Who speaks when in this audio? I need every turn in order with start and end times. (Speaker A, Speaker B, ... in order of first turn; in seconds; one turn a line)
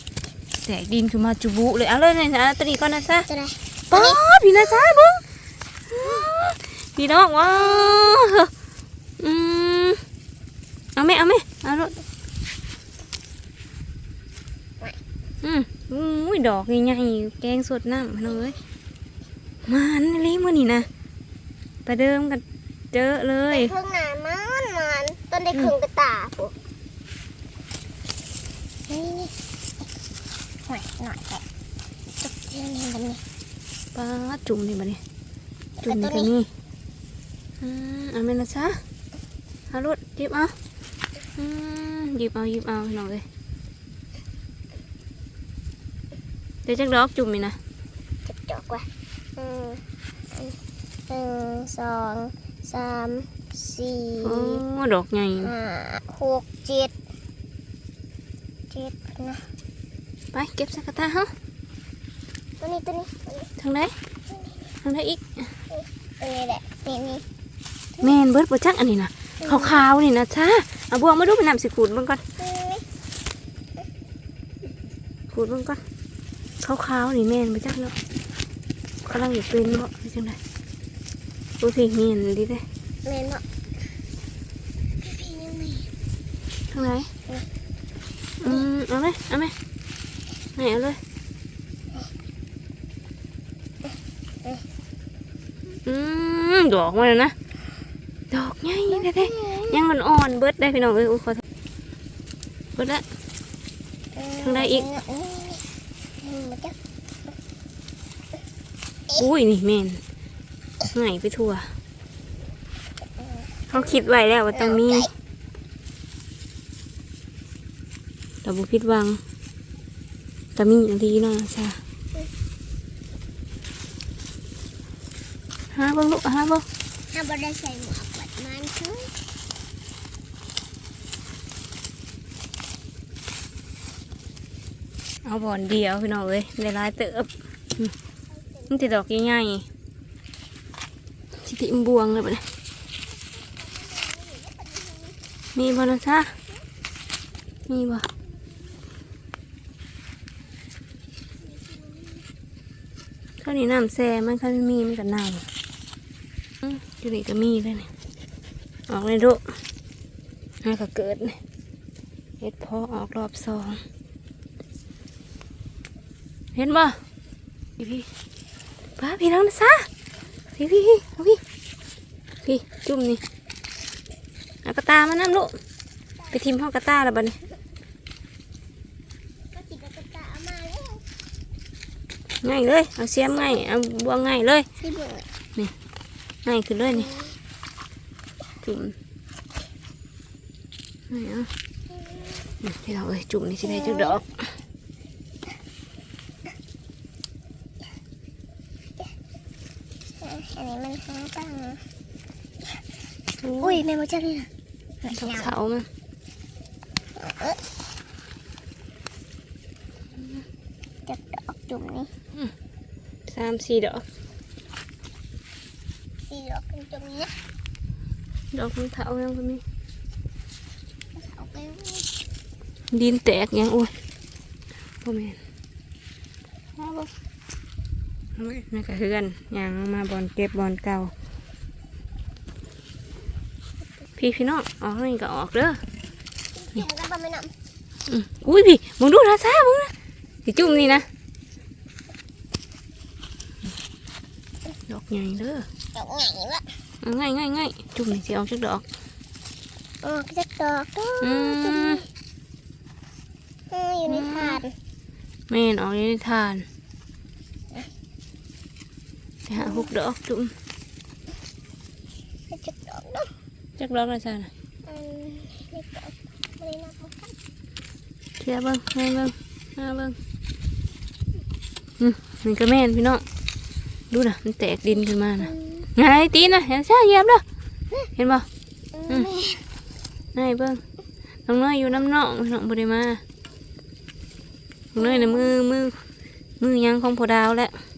Speaker A: 0.6-3.3
Speaker B: 3.3-4.7
Speaker A: 3.9-5.2
Speaker A: 5.9-8.5
Speaker B: 7.6-8.1
Speaker A: 9.2-10.0
Speaker A: 11.0-12.0
Speaker A: 15.4-18.6
Speaker A: 19.6-20.9
Speaker A: 21.9-23.7
Speaker B: 23.5-26.5
Speaker B: 28.9-29.4
Speaker B: 30.6-31.4
Speaker B: 32.2-33.2
Speaker A: 33.9-35.0
Speaker B: 35.8-36.3
Speaker A: 35.8-36.5
Speaker A: 37.6-38.8
Speaker A: 39.7-40.5
Speaker A: 41.4-43.2
Speaker A: 46.7-47.6
Speaker B: 48.2-50.6
Speaker B: 51.1-54.6
Speaker A: 54.2-55.5
Speaker B: 55.4-56.9
Speaker B: 58.7-59.5
Speaker A: 60.3-61.3
Speaker B: 62.6-63.5
Speaker A: 63.6-63.9
Speaker A: 64.8-65.5
Speaker B: 65.7-67.2
Speaker A: 68.0-72.2
Speaker B: 69.4-69.8
Speaker B: 72.4-72.9
Speaker A: 75.3-75.8
Speaker A: 76.6-78.0
Speaker A: 79.0-80.4
Speaker A: 81.6-82.6
Speaker B: 83.0-83.4
Speaker B: 85.0-85.9
Speaker A: 86.7-87.1
Speaker A: 88.4-89.5
Speaker A: 90.6-91.0
Speaker A: 95.8-97.3
Speaker A: 98.3-101.4
Speaker B: 98.9-99.8
Speaker A: 102.8-103.0
Speaker B: 104.2-105.6
Speaker A: 104.4-104.9
Speaker B: 106.2-106.8
Speaker A: 109.2-110.0
Speaker A: 110.9-111.7
Speaker B: 113.2-113.9
Speaker A: 113.7-115.1
Speaker B: 114.5-115.1
Speaker A: 118.4-119.2
Speaker A: 120.6-121.8
Speaker A: 125.7-126.7
Speaker B: 127.1-129.1
Speaker A: 135.2-137.9
Speaker B: 138.4-138.7
Speaker A: 138.7-139.7
Speaker A: 141.4-142.4
Speaker B: 143.4-145.2
Speaker A: 145.6-146.4
Speaker A: 147.7-148.1
Speaker B: 151.5-152.2
Speaker A: 153.4-155.5
Speaker A: 156.7-157.9
Speaker A: 158.9-159.4
Speaker A: 160.6-161.4
Speaker A: 162.4-163.8
Speaker A: 166.6-167.0
Speaker A: 167.8-168.1
Speaker A: 169.0-169.9
Speaker A: 170.6-171.4
Speaker A: 172.4-173.2
Speaker A: 174.7-175.6
Speaker A: 176.3-177.4
Speaker B: 179.5-181.0
Speaker A: 182.4-184.7
Speaker B: 184.8-185.3
Speaker A: 186.4-187.1
Speaker B: 187.0-187.3
Speaker A: 188.6-189.0
Speaker A: 191.1-191.5
Speaker B: 192.1-192.4
Speaker A: 192.6-194.4
Speaker B: 193.7-194.2
Speaker B: 200.2-201.8
Speaker A: 203.4-203.8
Speaker B: 203.6-204.5
Speaker B: 205.0-205.5
Speaker A: 205.1-205.9
Speaker B: 207.2-207.7
Speaker B: 211.1-212.1
Speaker A: 213.3-214.1
Speaker B: 216.3-217.4
Speaker A: 218.5-219.6
Speaker B: 221.2-222.1
Speaker A: 222.9-223.9
Speaker A: 225.0-225.4
Speaker A: 226.8-227.1
Speaker A: 228.4-231.1
Speaker A: 234.2-235.8
Speaker B: 236.6-237.5
Speaker A: 238.1-239.9
Speaker A: 240.4-241.1
Speaker A: 244.9-245.7
Speaker B: 245.9-246.7
Speaker A: 247.0-248.9
Speaker B: 250.0-252.1
Speaker A: 251.2-252.0
Speaker B: 253.7-254.7
Speaker A: 254.1-254.6
Speaker A: 255.5-256.7
Speaker A: 259.5-260.5
Speaker B: 259.6-259.9
Speaker B: 262.5-263.3
Speaker A: 263.8-264.5
Speaker B: 264.9-267.4
Speaker A: 268.4-270.2
Speaker A: 272.0-273.2
Speaker A: 274.1-277.4
Speaker B: 274.9-275.9
Speaker A: 278.2-278.5
Speaker B: 278.9-279.6
Speaker A: 280.4-280.8
Speaker A: 281.5-283.2
Speaker A: 284.9-285.9
Speaker B: 285.0-285.5
Speaker A: 286.6-287.8